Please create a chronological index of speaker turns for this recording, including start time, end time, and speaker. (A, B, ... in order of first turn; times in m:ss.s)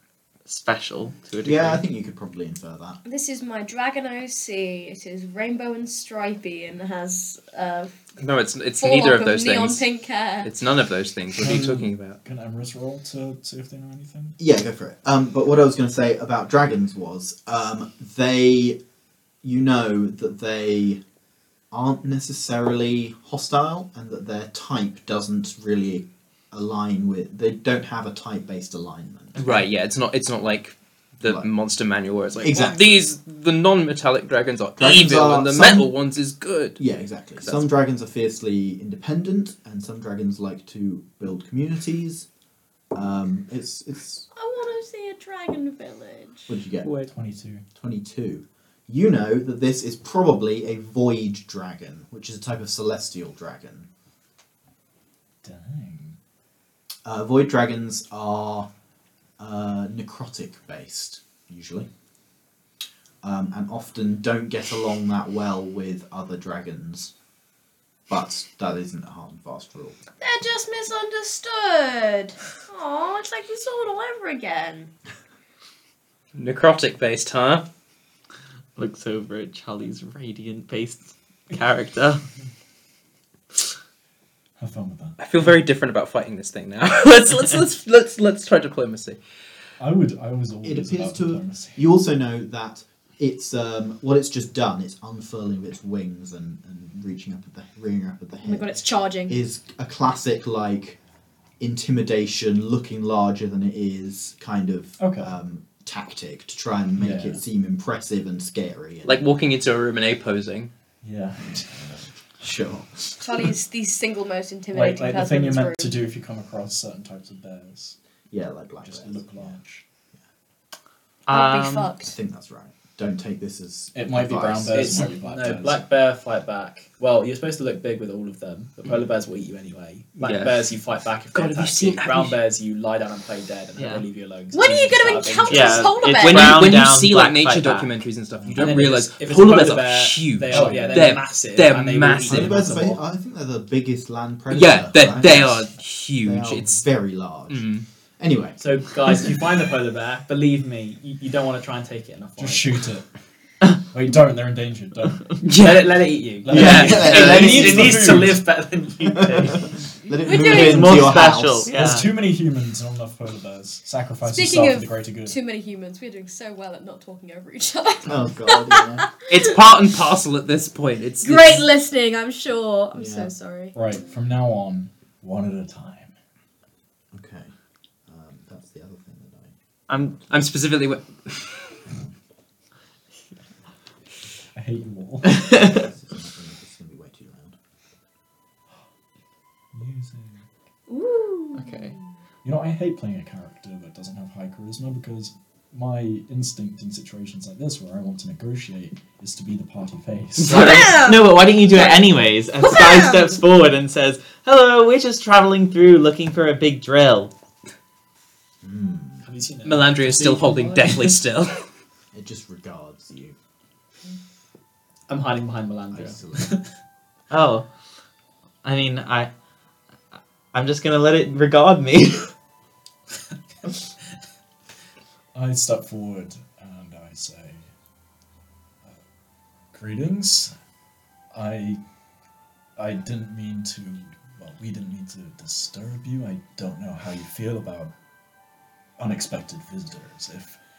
0:00.4-0:01.8 A
0:01.4-0:03.0 B
0:03.0-0:07.9 C
0:08.2-0:09.8 D
0:08.8-0:10.5 C
0:10.4-0:12.2 D
0:11.4-0:14.4 E
0:14.4-0:18.8 B
0:19.4-0:21.0 B
0:21.7-0:29.4 B
0:29.4-0:29.7 A
0:29.4-0:36.8 D
0:31.2-0:31.5 B
0:32.4-0:33.0 B
0:34.8-0:35.9 B
0:36.8-0:42.3 B
0:37.4-0:37.7 D
0:42.9-0:44.2 B
0:44.3-0:46.5 C
0:46.5-0:46.9 B
0:46.8-0:47.1 D
0:47.0-0:47.6 E
0:47.7-0:53.9 B
0:55.4-0:56.2 E
0:57.0-0:58.7 B
0:59.4-1:01.9 B
1:03.2-1:07.1 B
1:08.1-1:10.0 B
1:10.2-1:14.9 C
1:16.3-1:17.6 D
1:18.8-1:22.2 A
1:24.6-1:25.2 E
1:25.2-1:29.2 D
1:29.8-1:31.8 E
1:30.6-1:38.7 B
1:38.4-1:39.4 C
1:39.3-1:41.0 B
1:41.6-1:49.2 B
1:45.0-1:45.3 E
1:47.0-1:47.4 E
1:49.0-1:50.7 D
1:51.0-1:52.0 E
1:52.4-1:53.4 B
1:53.2-1:56.0 C
1:54.7-1:58.0 E
1:58.3-1:59.5 B
1:58.8-1:59.8 E
2:01.3-2:01.9 A
2:01.3-2:02.2 C
2:02.0-2:05.1 B
2:03.9-2:05.8 E
2:04.7-2:15.9 F
2:10.2-2:10.6 D
2:11.3-2:12.4 D
2:13.8-2:14.0 A
2:14.5-2:16.7 C
2:15.5-2:17.9 A
2:16.2-2:22.5 D
2:18.5-2:18.8 E
2:18.6-2:23.0 F
2:20.5-2:21.2 E
2:22.3-2:25.6 B
2:24.5-2:26.8 D
2:26.2-2:27.7 B
2:27.5-2:27.8 D
2:28.2-2:28.6 B
2:28.6-2:32.8 F
2:32.4-2:33.0 E
2:33.9-2:35.4 E
2:35.4-2:35.9 D
2:35.5-2:39.7 F
2:36.4-2:38.4 E
2:36.5-2:38.4 B
2:36.5-2:37.3 D
2:39.1-2:41.7 B
2:40.2-2:41.2 C
2:40.4-2:42.1 A
2:41.7-2:45.4 E
2:44.2-2:49.5 C
2:48.0-2:49.1 B
2:49.3-2:51.7 D
2:51.2-2:53.8 C
2:52.9-2:53.3 B
2:53.7-2:56.1 E
2:57.1-2:57.5 B
2:58.1-2:59.5 B
2:59.9-3:00.2 A
3:00.3-3:01.8 D
3:04.5-3:05.6 E
3:05.4-3:05.8 A
3:05.6-3:07.6 B
3:09.7-3:10.4 E
3:10.9-3:12.0 C
3:11.6-3:11.9 A
3:12.4-3:21.0 E
3:20.4-3:27.3 A
3:20.5-3:22.0 C
3:22.6-3:23.4 C
3:28.6-3:29.2 B
3:29.2-3:31.2 F
3:29.6-3:31.6 D
3:32.1-3:33.4 B
3:35.1-3:36.7 F
3:35.9-3:36.6 B
3:37.3-3:37.6 A
3:38.6-3:39.3 A
3:40.2-3:42.3 A
3:45.3-3:47.7 E
3:49.7-3:50.5 E
3:51.3-3:51.8 E
3:52.8-3:57.9 E
3:59.0-4:00.6 E